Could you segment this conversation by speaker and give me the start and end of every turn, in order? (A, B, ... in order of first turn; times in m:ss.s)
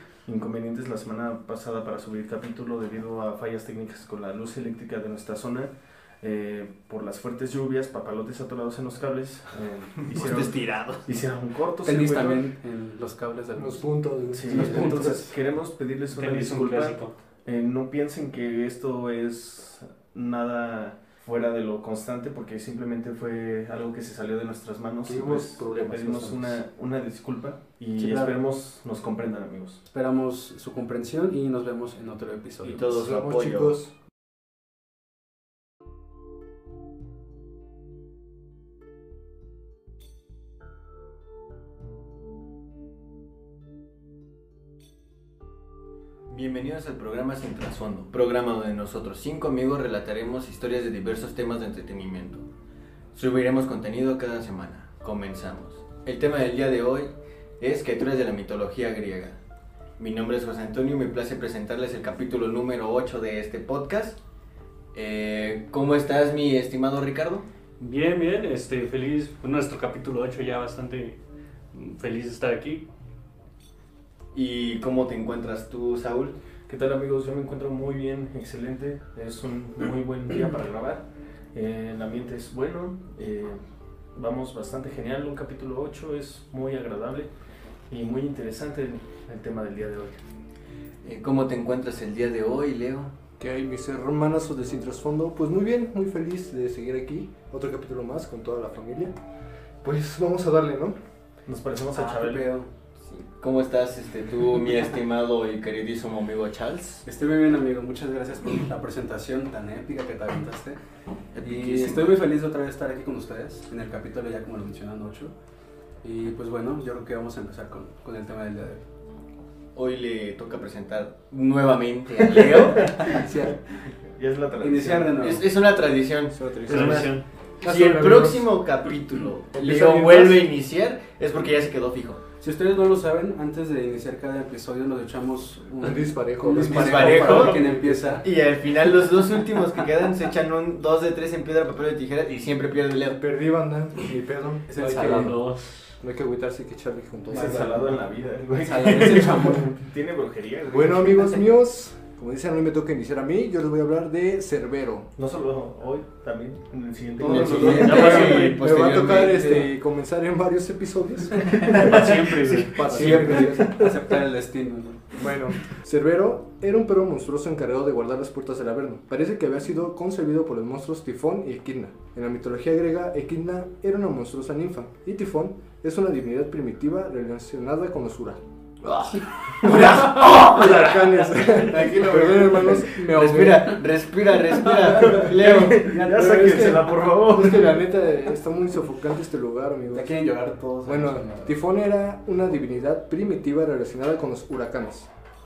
0:00.2-0:12.5 A
0:10.1-0:11.0 B
0:11.8-0:13.8 C
0:13.6-0:15.2 D
0:14.3-0:29.8 A
0:14.4-0:15.3 C
0:16.1-0:17.1 E
0:25.0-0:26.6 D
0:28.0-0:28.4 C
0:29.9-0:33.0 C
0:32.6-0:33.8 B
0:32.9-0:33.9 D
0:46.3-0:52.4 B
0:53.1-0:59.4 B
1:00.0-1:04.2 B
1:04.9-1:07.5 B
1:07.8-1:11.2 E
1:11.7-1:12.8 E
1:14.3-1:16.3 B
1:16.7-1:23.6 A
1:24.2-1:27.3 A
1:27.9-1:30.2 A
1:31.0-1:33.1 B
1:33.4-1:39.1 D
1:39.8-1:41.0 D
1:41.4-1:42.5 A
1:41.9-1:42.7 C
1:43.0-1:47.0 B
1:47.0-1:50.8 C
1:51.3-1:52.2 B
1:51.4-1:55.3 C
1:56.0-1:58.8 C
1:59.7-2:03.3 B
2:03.1-2:03.6 D
2:04.2-2:05.2 A
2:04.6-2:05.4 C
2:05.1-2:12.2 B
2:06.4-2:07.1 D
2:06.7-2:07.2 E
2:07.6-2:08.5 D
2:09.5-2:10.5 D
2:12.4-2:18.2 C
2:15.8-2:18.2 D
2:16.6-2:17.6 B
2:18.2-2:23.2 B
2:23.2-2:25.4 D
2:24.7-2:25.3 C
2:25.0-2:25.9 E
2:26.0-2:27.9 D
2:27.3-2:31.4 A
2:28.6-2:29.7 C
2:30.7-2:35.1 D
2:35.2-2:38.4 A
2:37.2-2:42.1 D
2:37.2-2:39.7 B
2:37.6-2:38.8 E
2:41.5-2:43.9 B
2:41.6-2:43.3 E
2:42.6-2:44.0 D
2:42.9-2:45.2 C
2:45.2-2:58.4 D
2:59.1-3:06.8 B
2:59.6-3:03.8 D
3:05.0-3:07.8 A
3:06.0-3:10.2 D
3:09.9-3:11.5 C
3:10.8-3:15.1 D